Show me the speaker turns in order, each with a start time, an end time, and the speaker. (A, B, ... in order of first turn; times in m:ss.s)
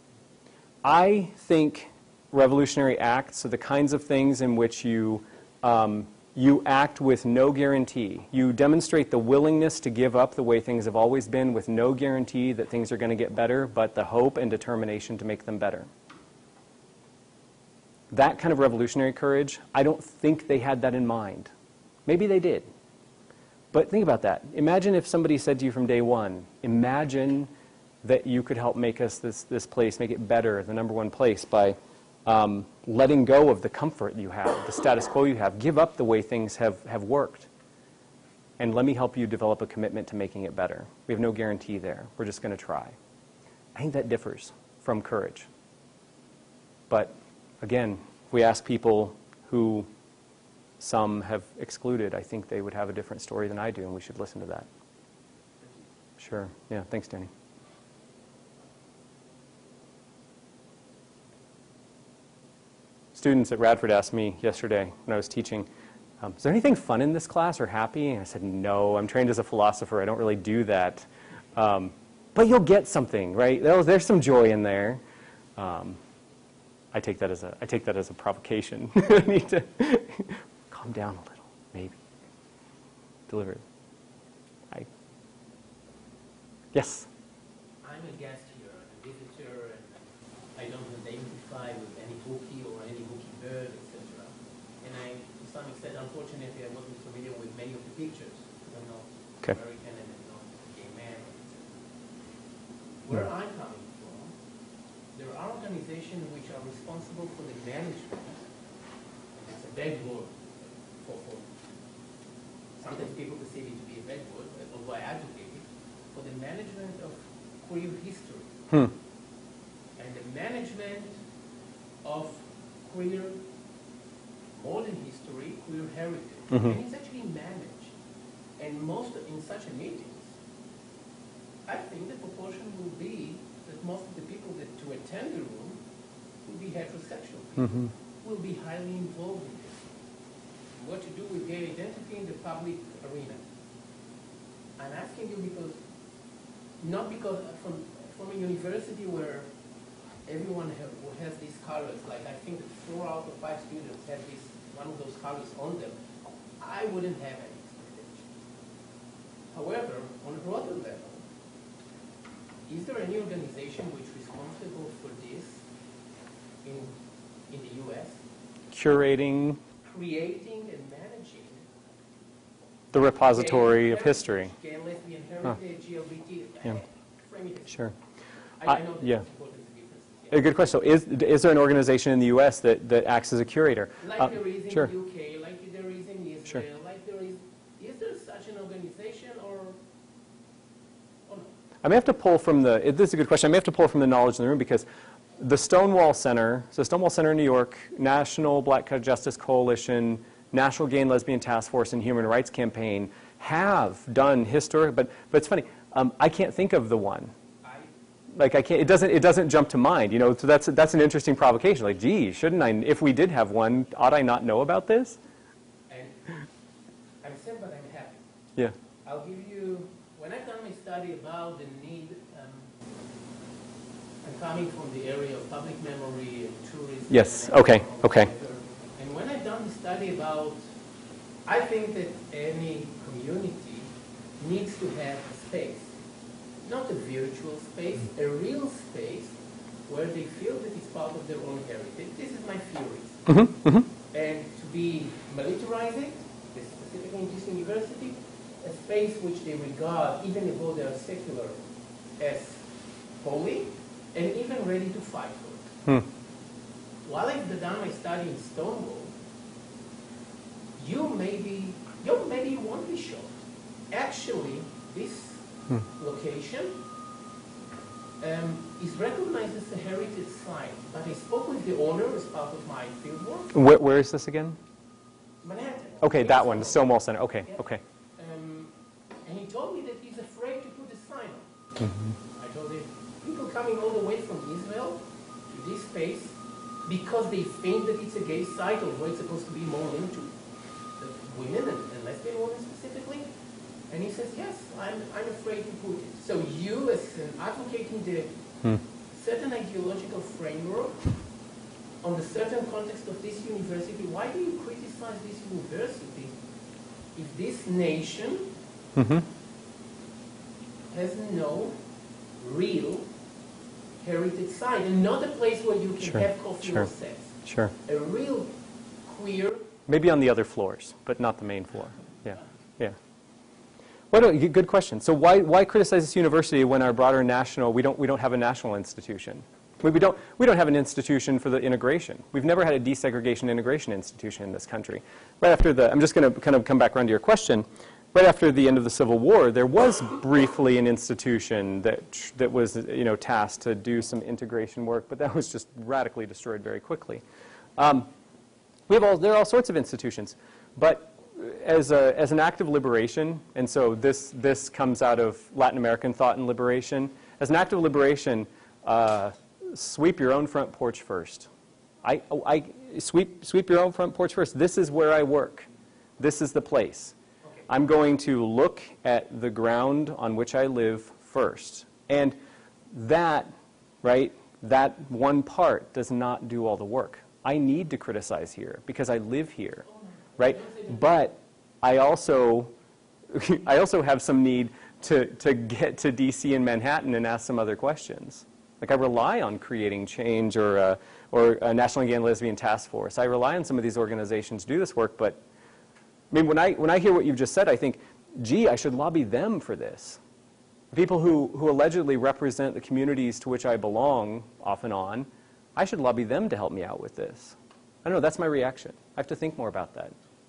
0:00.8-0:15.9 A
0:18.1-0:21.5 A
0:22.0-0:22.7 A
0:23.7-0:27.5 A
0:28.0-0:37.5 A
0:38.6-0:43.0 A
0:43.7-0:45.5 A
0:46.9-0:49.9 A
0:50.8-0:54.7 A
0:56.2-0:57.3 A
1:03.1-1:05.7 A
1:06.2-1:15.0 A
1:15.6-1:16.0 A
1:16.9-1:22.0 A
1:23.3-1:23.6 A
1:26.7-1:27.1 A
1:27.8-1:41.8 B
1:43.0-1:44.3 B
1:45.1-1:48.4 B
1:49.4-1:51.5 B
1:52.8-1:58.5 B
2:00.0-2:01.2 B
2:02.0-2:03.4 B
2:04.5-2:07.9 B
2:06.5-2:06.8 A
2:08.6-2:10.3 B
2:11.6-2:15.8 B
2:16.4-2:19.8 B
2:17.6-2:17.9 A
2:20.8-2:23.4 B
2:24.8-2:25.8 B
2:26.8-2:29.5 B
2:30.2-2:36.0 B
2:36.6-2:38.3 B
2:39.5-2:41.2 B
2:42.6-2:45.6 B
2:46.6-2:47.0 B
2:47.5-2:48.2 B
2:48.7-2:49.6 A
2:49.8-2:51.6 B
2:52.9-2:54.5 A
2:53.3-2:57.9 B
2:58.6-3:00.5 B
2:58.6-2:59.2 A
3:00.3-3:04.9 A
3:04.0-3:09.8 B
3:11.2-3:11.5 B
3:11.8-3:14.8 A
3:15.4-3:27.3 A
3:27.6-3:27.9 B
3:28.3-3:35.2 A
3:35.9-3:36.4 B
3:37.2-3:38.2 B
3:39.0-3:42.7 B
3:44.2-3:50.6 B
3:47.1-3:48.3 A
3:51.4-3:55.9 B
3:56.6-4:03.4 B
4:03.3-4:03.9 A
4:04.1-4:11.6 B
4:12.2-4:12.7 B
4:13.2-4:15.7 B
4:17.0-4:19.1 B
4:20.8-4:23.3 B
4:23.9-4:26.8 B
4:28.2-4:33.5 B
4:33.5-4:34.6 A
4:35.4-4:36.9 B
4:36.0-4:37.8 A
4:38.2-4:41.5 B
4:41.8-4:42.2 A
4:42.3-4:50.4 B
4:51.0-4:53.3 B
4:53.9-4:58.4 B
4:59.1-5:01.2 B
5:02.0-5:06.4 B
5:07.1-5:08.5 B
5:09.0-5:09.2 A
5:10.9-5:11.8 B
5:12.4-5:13.1 B
5:14.0-5:19.7 B
5:16.0-5:16.9 A
5:17.4-5:17.7 A
5:19.9-5:23.0 A
5:24.1-5:47.2 A
5:47.8-5:48.1 A
5:48.9-6:01.5 A
6:02.0-6:05.7 A
6:06.2-6:07.1 A
6:07.7-6:12.4 A
6:12.9-6:13.5 A
6:14.0-6:19.8 A
6:19.8-6:21.2 B
6:20.4-6:22.7 A
6:23.3-6:35.4 A
6:36.3-6:40.2 A
6:40.9-6:50.2 A